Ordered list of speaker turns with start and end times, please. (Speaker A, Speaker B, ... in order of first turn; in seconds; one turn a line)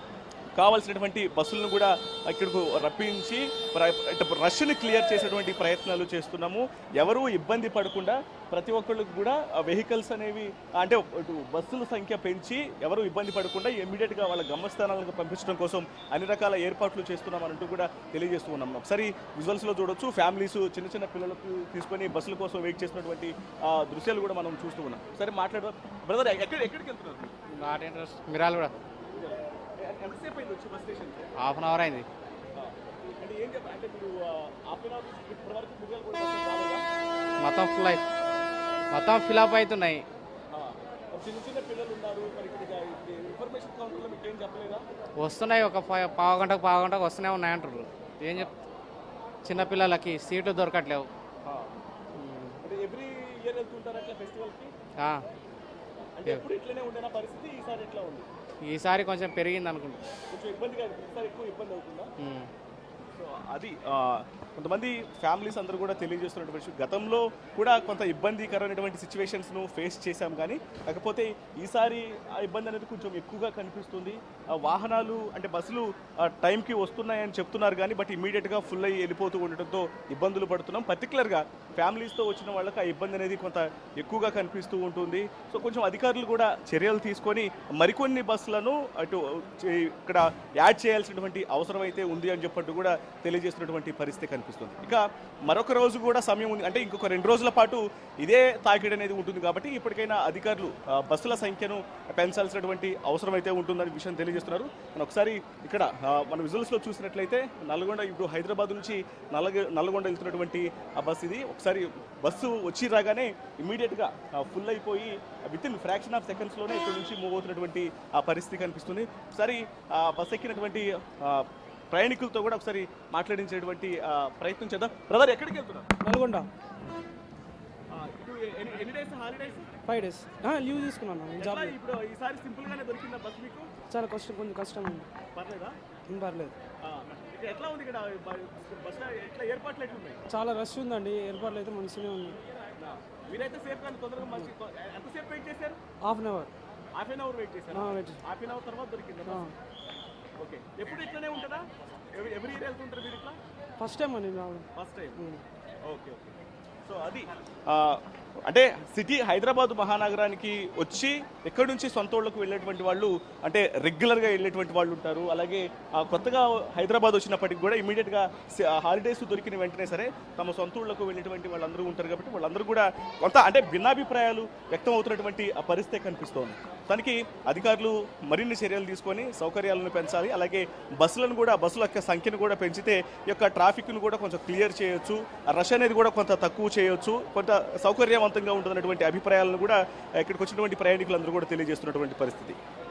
Speaker A: 0.6-27.3
Speaker B: 27.5-28.7
Speaker A: 29.1-31.3
Speaker B: 31.4-32.1
Speaker A: 32.5-36.8
Speaker B: 37.4-38.0
Speaker B: 38.9-40.0
Speaker A: 40.5-44.8
Speaker B: 45.2-48.5
Speaker B: 49.4-51.1
Speaker A: 51.4-51.7
Speaker B: 52.1-52.5
Speaker A: 52.6-54.7
Speaker A: 56.2-58.3
Speaker B: 58.6-60.0
Speaker A: 60.3-62.1
Speaker B: 62.2-62.5
Speaker A: 63.2-125.9
Speaker C: 126.0-126.5
Speaker A: 127.9-129.7
Speaker C: 129.8-131.7
Speaker A: 131.4-133.7
Speaker C: 133.9-135.1
Speaker A: 135.3-135.8
Speaker C: 136.1-136.6
Speaker A: 136.8-140.2
Speaker C: 140.3-142.4
Speaker A: 142.8-145.8
Speaker C: 146.0-146.5
Speaker A: 146.9-149.5
Speaker C: 147.7-148.2
Speaker C: 149.2-149.5
Speaker A: 150.4-153.4
Speaker C: 153.8-155.4
Speaker A: 154.8-155.2
Speaker A: 155.8-192.6